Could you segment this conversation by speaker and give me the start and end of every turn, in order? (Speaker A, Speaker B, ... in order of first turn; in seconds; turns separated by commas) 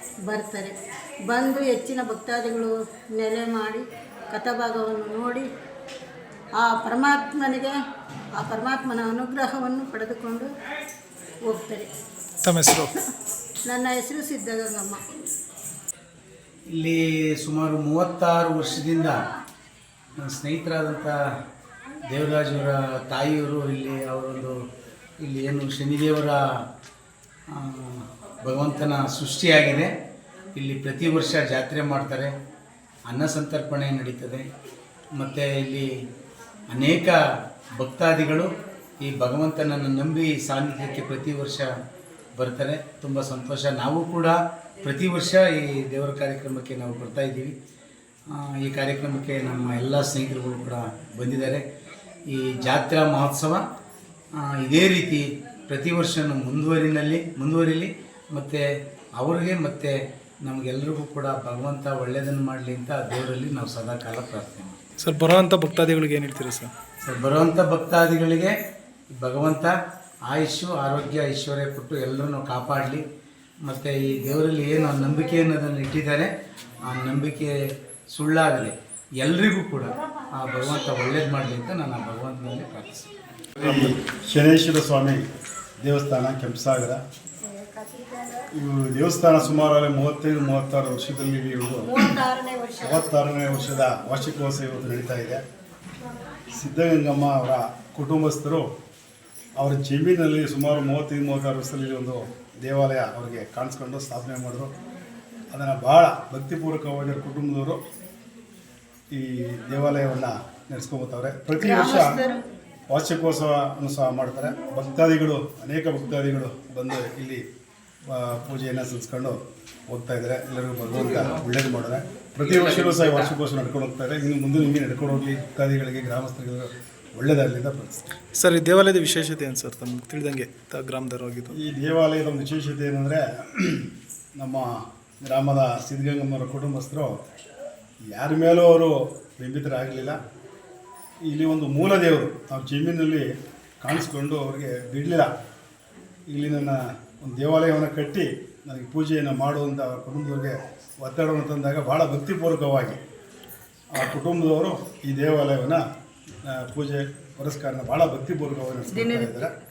Speaker A: 0.3-0.7, Speaker A: 1.3-5.5, Speaker A: 6.6-7.7, Speaker A: 8.4-10.5, Speaker A: 11.5-11.9, Speaker B: 12.4-12.9, Speaker A: 13.7-15.0, Speaker C: 16.7-19.2, Speaker C: 20.2-21.2, Speaker C: 22.0-24.6, Speaker C: 25.2-26.4, Speaker C: 27.5-29.9, Speaker C: 30.5-32.3, Speaker C: 33.1-34.5, Speaker C: 35.1-35.9, Speaker C: 36.7-37.2, Speaker C: 37.8-38.5, Speaker C: 39.0-41.7, Speaker C: 42.4-47.5, Speaker C: 48.3-51.7, Speaker C: 52.3-53.6, Speaker C: 54.4-64.8, Speaker B: 65.0-66.7, Speaker C: 67.0-68.5, Speaker C: 69.1-69.7, Speaker C: 70.3-73.0, Speaker C: 73.6-76.3, Speaker C: 76.8-83.1, Speaker D: 83.6-85.2, Speaker D: 85.8-87.0, Speaker A: 87.8-88.1, Speaker D: 88.5-92.2, Speaker A: 92.0-93.0, Speaker D: 92.8-95.4, Speaker D: 96.5-98.7, Speaker D: 99.6-104.7, Speaker D: 105.5-107.8, Speaker D: 109.1-112.2, Speaker A: 111.6-112.4, Speaker D: 112.9-117.4, Speaker D: 118.1-119.4, Speaker D: 119.9-128.1, Speaker C: 120.9-121.4, Speaker C: 122.4-123.3, Speaker B: 128.3-131.5, Speaker D: 131.5-134.7, Speaker D: 135.2-137.1, Speaker D: 138.1-140.2, Speaker D: 141.3-143.3, Speaker D: 143.8-145.3, Speaker D: 146.3-153.0, Speaker D: 153.9-155.8, Speaker D: 156.4-159.5, Speaker A: 158.9-159.3